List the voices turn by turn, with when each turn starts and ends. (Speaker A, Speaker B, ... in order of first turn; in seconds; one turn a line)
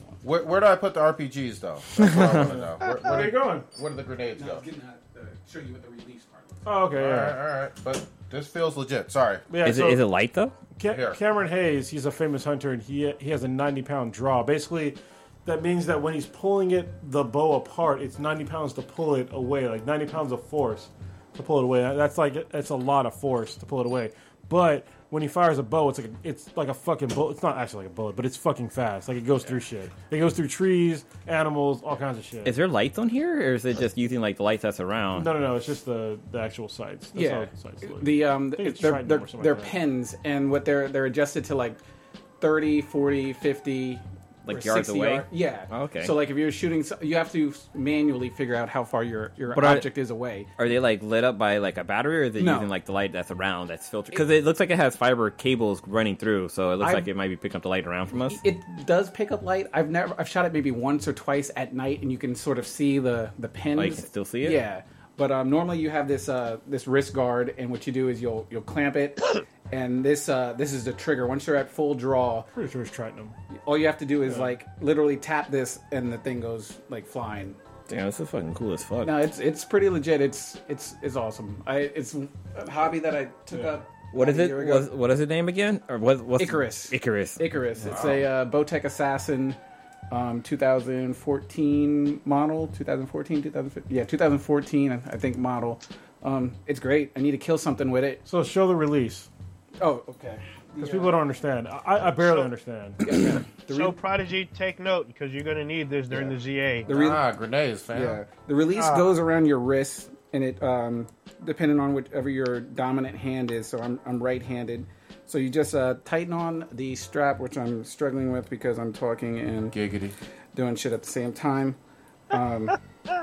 Speaker A: 0.2-4.6
Speaker B: 2.1-2.4
Speaker C: 2.1-3.7
Speaker D: 4.3-6.6
Speaker C: 6.7-7.4
Speaker A: 7.0-9.4
Speaker C: 9.5-10.0
Speaker B: 9.6-10.6
Speaker C: 10.8-32.6
Speaker A: 10.9-11.2
Speaker B: 32.5-35.3
Speaker C: 35.1-39.8
Speaker D: 37.1-41.8
Speaker D: 42.4-50.5
Speaker B: 44.5-46.1
Speaker B: 49.5-49.9
Speaker B: 50.6-58.4
Speaker D: 52.4-52.7
Speaker D: 56.8-57.1
Speaker D: 58.2-72.5
Speaker B: 63.8-64.6
Speaker C: 72.5-73.3
Speaker D: 73.5-77.6
Speaker B: 77.9-79.2
Speaker D: 79.0-84.9
Speaker B: 84.1-87.4
Speaker D: 86.4-89.6
Speaker A: 87.8-88.2
Speaker D: 90.1-98.2
Speaker C: 98.3-99.3
Speaker D: 99.8-101.2
Speaker C: 100.8-103.0
Speaker D: 103.0-104.0
Speaker E: 103.7-106.9
Speaker D: 106.9-107.2
Speaker A: 106.9-108.2
Speaker D: 107.9-119.8
Speaker E: 108.8-109.1
Speaker A: 119.7-120.2
Speaker D: 120.5-121.8
Speaker D: 122.3-122.8